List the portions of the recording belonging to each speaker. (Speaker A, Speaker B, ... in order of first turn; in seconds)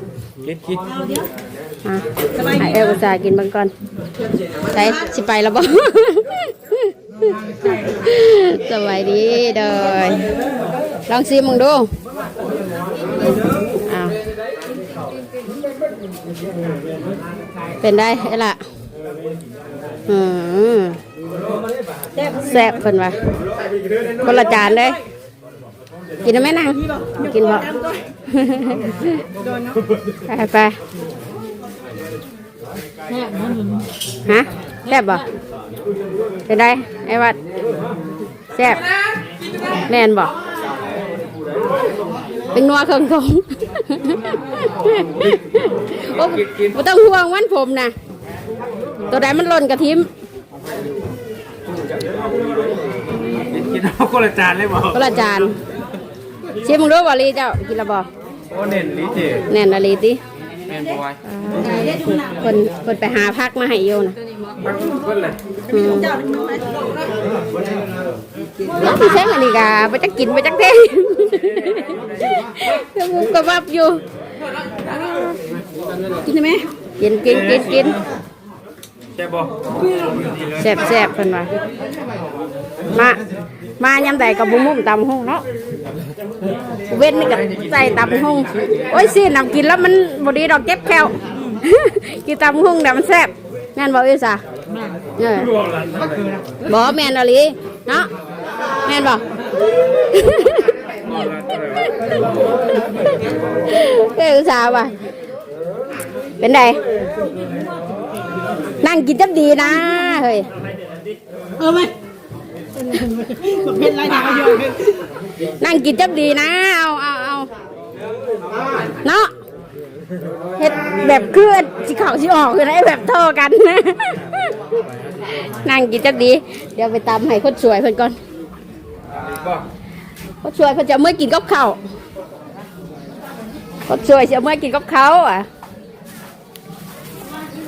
Speaker A: 0.4-0.9, 53.4-55.2, 58.5-59.5, 60.7-61.2, 64.6-65.4, 77.2-78.0, 79.2-80.8, 87.1-88.9, 95.5-96.3, 101.0-102.7
Speaker B: 0.9-1.2, 2.4-3.0, 27.0-28.0, 29.4-29.8, 33.2-33.6, 61.6-62.4, 65.7-67.1, 111.6-111.9, 112.8-114.9
Speaker C: 1.8-3.7, 4.7-10.2, 11.1-11.9, 13.8-14.2, 17.8-18.6, 20.1-21.0, 22.3-23.2, 24.2-25.0, 26.2-27.7, 28.3-29.1, 30.3-30.8, 34.3-35.2, 36.5-37.4, 38.5-38.9, 39.9-40.3, 42.5-47.9, 49.1-50.1, 54.9-55.5, 56.6-58.1, 59.5-60.2, 61.2-64.2, 65.7-66.1, 68.8-74.0, 74.8-75.3, 76.2-78.0, 80.6-81.5, 82.9-83.2, 83.8-85.4, 86.9-94.4, 95.2-95.5, 96.7-98.1, 98.8-99.2, 100.1-100.7, 103.7-104.9, 106.4-106.8, 108.8-110.5, 114.3-114.6, 115.6-117.5, 118.9-119.3, 120.6-124.4, 125.6-128.2, 130.4-131.8, 133.9-135.5